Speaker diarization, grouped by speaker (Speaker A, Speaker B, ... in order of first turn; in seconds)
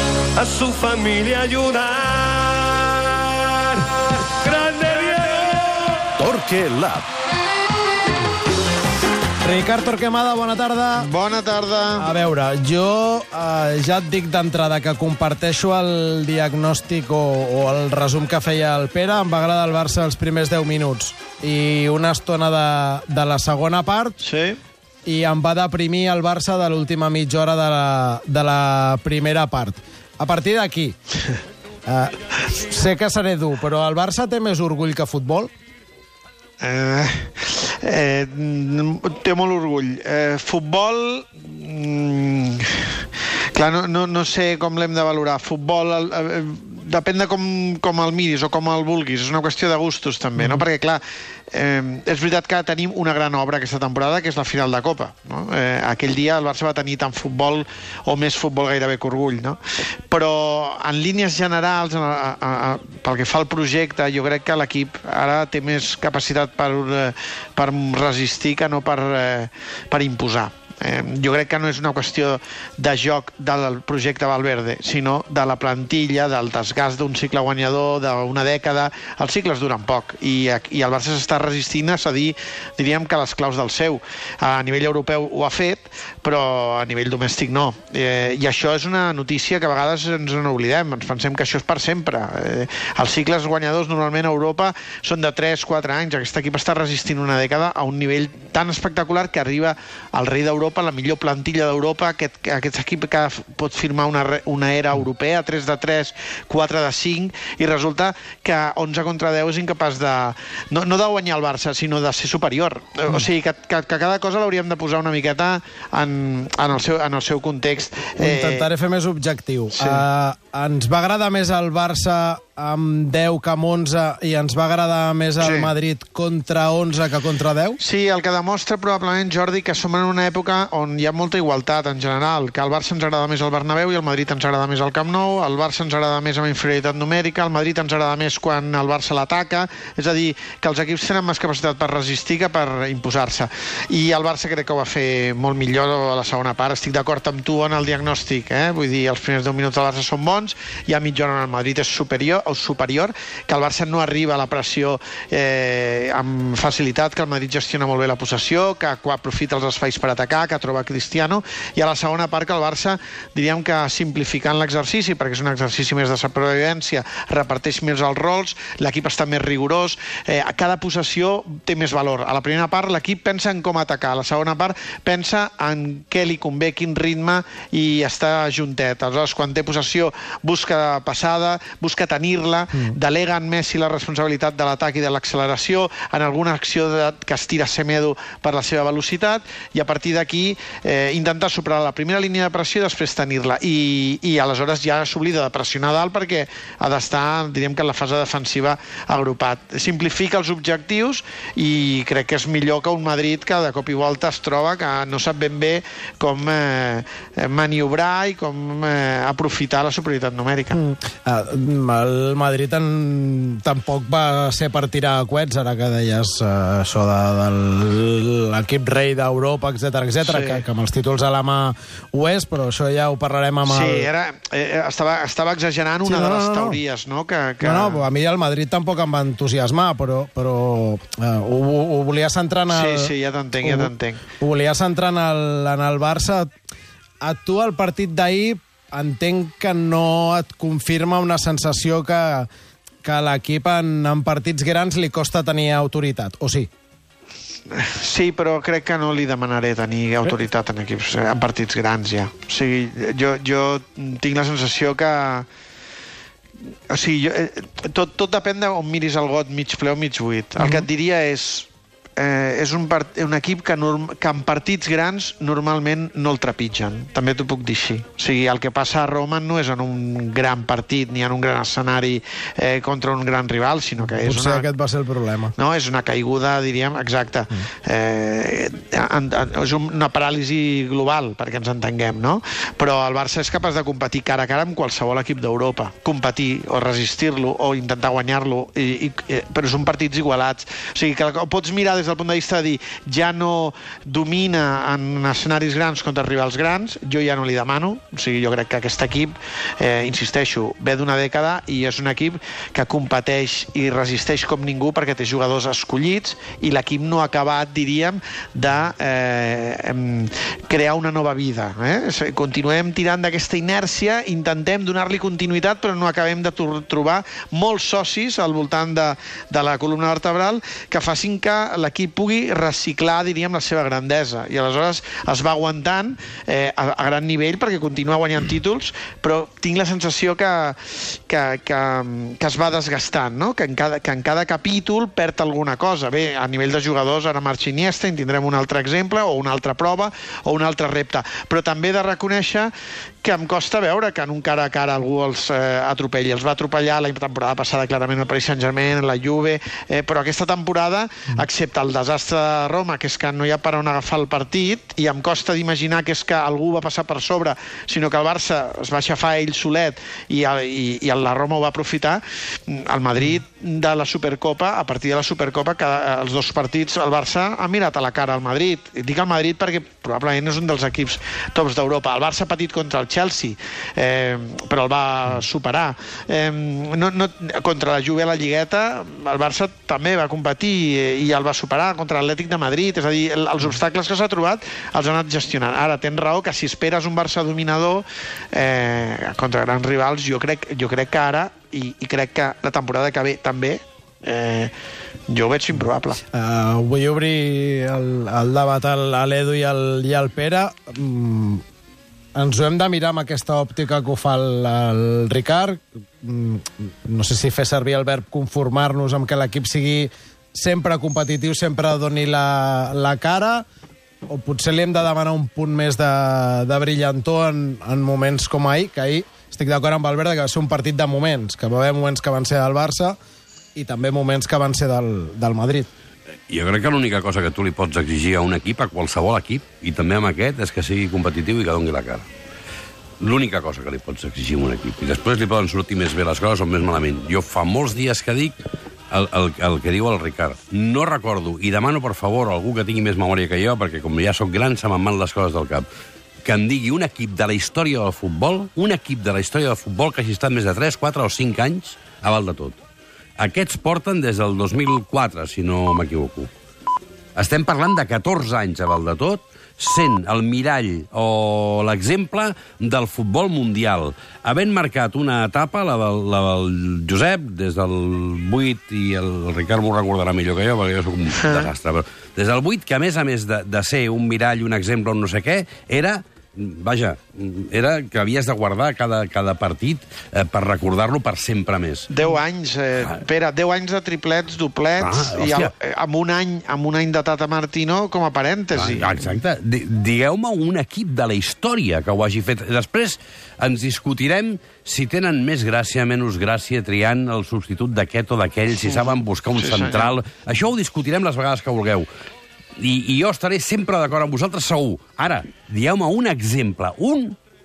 Speaker A: 0.4-3.5, 4.4-5.5
Speaker B: 6.3-7.0, 426.5-432.3, 433.2-438.6, 439.1-445.9, 446.4-452.8, 453.4-456.5, 457.4-482.1, 485.0-485.7, 488.7-502.1, 502.8-507.4
Speaker C: 9.4-11.1, 12.0-24.2, 25.1-30.9, 31.9-35.5, 50.4-50.6, 118.2-127.8, 210.7-224.1, 226.0-226.8, 227.6-236.5, 237.2-242.5, 243.0-246.7, 260.6-260.9, 274.1-275.5, 396.3-401.6, 402.3-413.6, 414.3-423.2, 423.7-425.9
Speaker D: 11.0-12.1, 24.2-24.6, 36.6-43.0, 43.5-59.6, 60.1-118.7, 119.8-120.0, 125.4-125.7, 127.8-210.8, 220.2-220.6, 223.6-228.0, 232.7-234.2, 247.7-255.4, 256.9-274.7, 275.6-342.7, 343.2-394.7, 395.3-396.2, 471.3-471.7, 482.1-489.2, 498.8-500.1